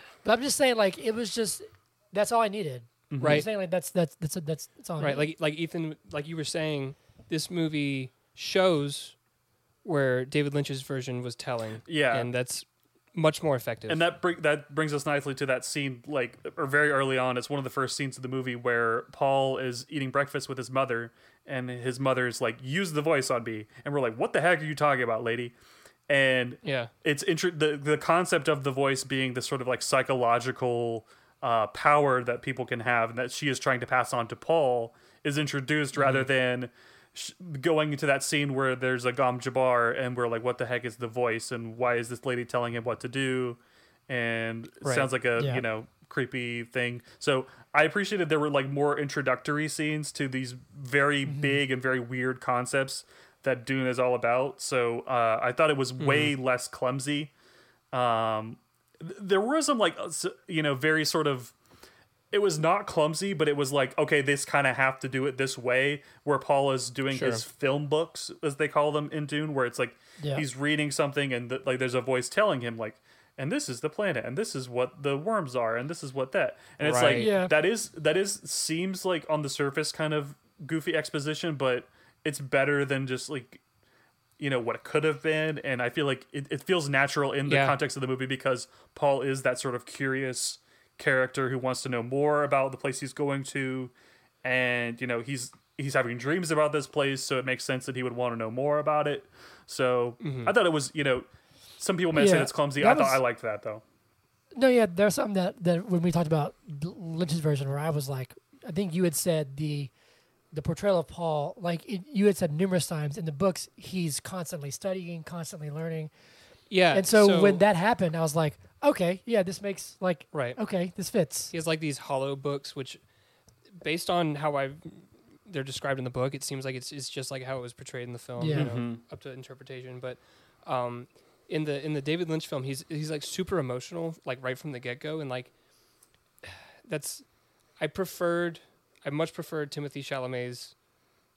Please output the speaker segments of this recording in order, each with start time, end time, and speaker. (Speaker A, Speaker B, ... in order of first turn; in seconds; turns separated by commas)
Speaker A: 0.2-5.3, Speaker B: 3.1-3.5, Speaker C: 3.2-3.5, Speaker C: 5.0-9.2, Speaker C: 9.8-14.0, Speaker B: 11.9-12.3, Speaker B: 13.9-25.5, Speaker B: 26.1-57.3, Speaker C: 26.6-26.9, Speaker C: 36.0-36.3, Speaker C: 44.8-45.1, Speaker A: 45.4-45.6, Speaker A: 51.2-51.6, Speaker C: 56.0-56.3, Speaker B: 57.9-61.5, Speaker B: 62.3-83.6, Speaker C: 67.1-67.4, Speaker A: 70.2-70.5, Speaker C: 76.8-77.3, Speaker A: 77.1-77.5, Speaker B: 84.4-93.9, Speaker C: 87.5-87.7, Speaker B: 94.4-101.3, Speaker C: 100.2-100.5, Speaker B: 101.8-103.8, Speaker A: 102.1-103.2, Speaker A: 104.5-109.9, Speaker A: 110.5-116.1, Speaker C: 116.7-117.6, Speaker A: 116.9-121.5, Speaker C: 120.3-120.6, Speaker C: 121.5-123.0, Speaker C: 123.8-135.5, Speaker A: 128.4-128.7, Speaker B: 128.5-129.0, Speaker C: 136.4-140.8